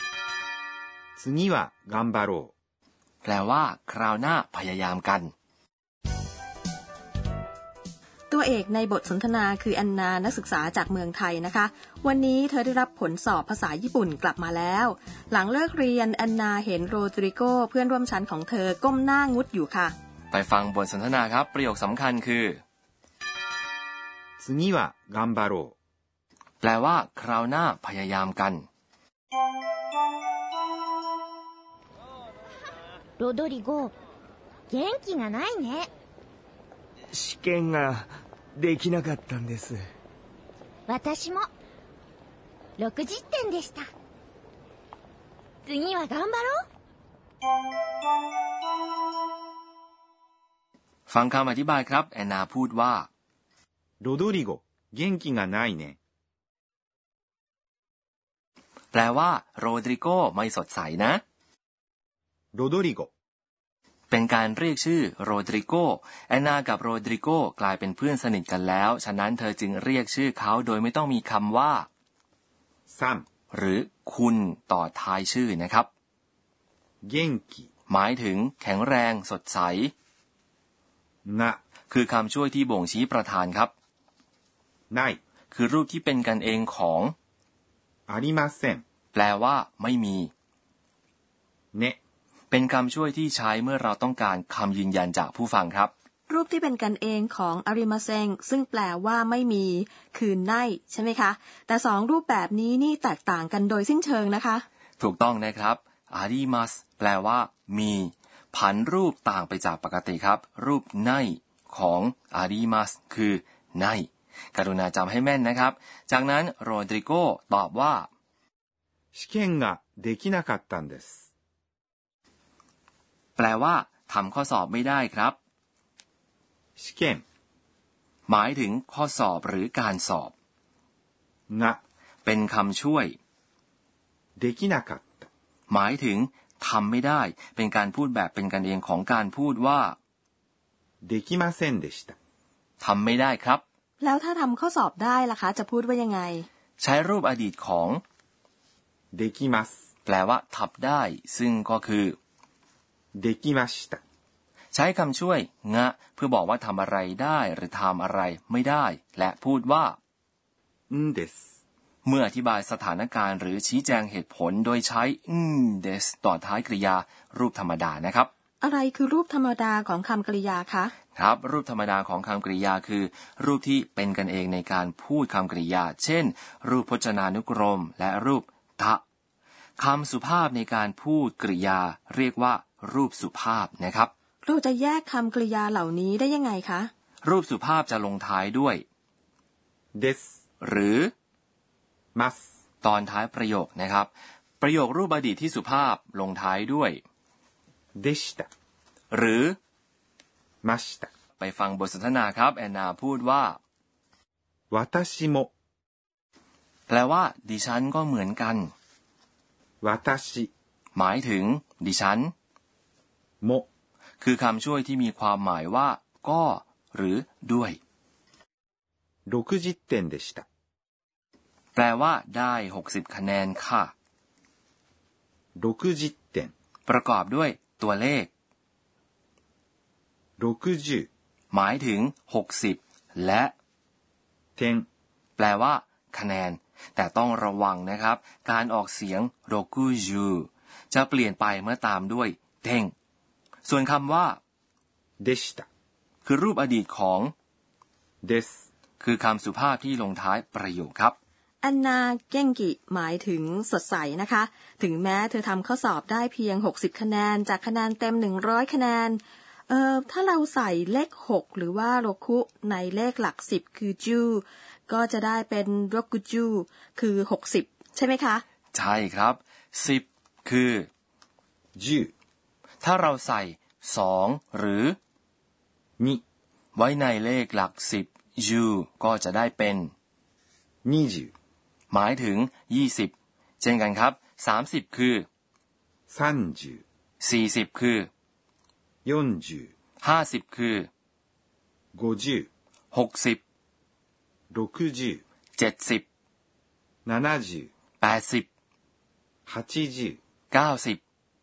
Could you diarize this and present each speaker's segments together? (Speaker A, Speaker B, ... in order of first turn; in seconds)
Speaker A: 1.2-2.5, 24.4-25.8, 54.0-56.0, 62.5-63.1, 72.9-73.3, 77.0-77.7, 81.2-81.6, 84.9-85.2, 88.1-88.8, 119.1-121.3, 126.8-127.2, 131.5-131.8, 134.4-135.3, 141.0-142.2, 149.1-149.8, 153.2-154.0, 160.9-161.5, 189.9-190.4, 192.2-192.5, 198.0-198.5, 200.6-201.1, 204.7-205.5, 209.8-210.5, 213.4-213.7, 219.3-220.4, 225.6-226.5, 230.4-231.1, 234.6-234.9, 245.2-245.7, 248.2-248.7, 271.8-272.1, 280.9-281.3, 286.1-286.8, 289.1-289.7, 291.9-292.5, 294.5-295.2, 297.1-297.7, 299.5-300.2
Speaker B: 3.2-5.3, 20.3-22.6, 26.6-28.7, 51.1-53.1, 58.9-61.2, 64.1-71.9, 73.5-75.9, 77.9-79.9, 81.9-83.7, 85.5-87.1, 89.1-90.3, 92.5-95.9, 105.0-118.1, 123.4-125.4, 128.3-130.3, 132.2-133.2, 135.7-140.0, 142.8-143.6, 146.8-148.0, 150.1-152.2, 154.7-160.0, 162.1-168.3, 171.2-179.0, 179.8-184.1, 187.2-188.8, 190.6-191.1, 192.8-197.0, 199.1-199.6, 201.4-203.6, 206.9-208.7, 210.9-212.3, 214.2-217.8, 221.8-223.9, 226.9-228.3, 231.5-233.5, 235.4-242.9, 243.7-244.4, 246.2-247.3, 249.0-251.2, 268.7-270.9, 272.8-275.0, 276.8-279.9, 281.9-285.3, 287.2-288.1, 290.0-290.9, 292.9-293.4, 295.6-296.1, 298.0-298.5, 300.5-301.0
Speaker C: 8.3-19.9, 96.3-104.7, 144.0-146.5, 168.6-170.9, 184.4-186.9, 251.6-268.4
Speaker D: 33.2-33.9, 34.7-35.9, 40.9-41.5, 42.8-43.9, 45.7-46.6
Speaker E: 37.1-39.8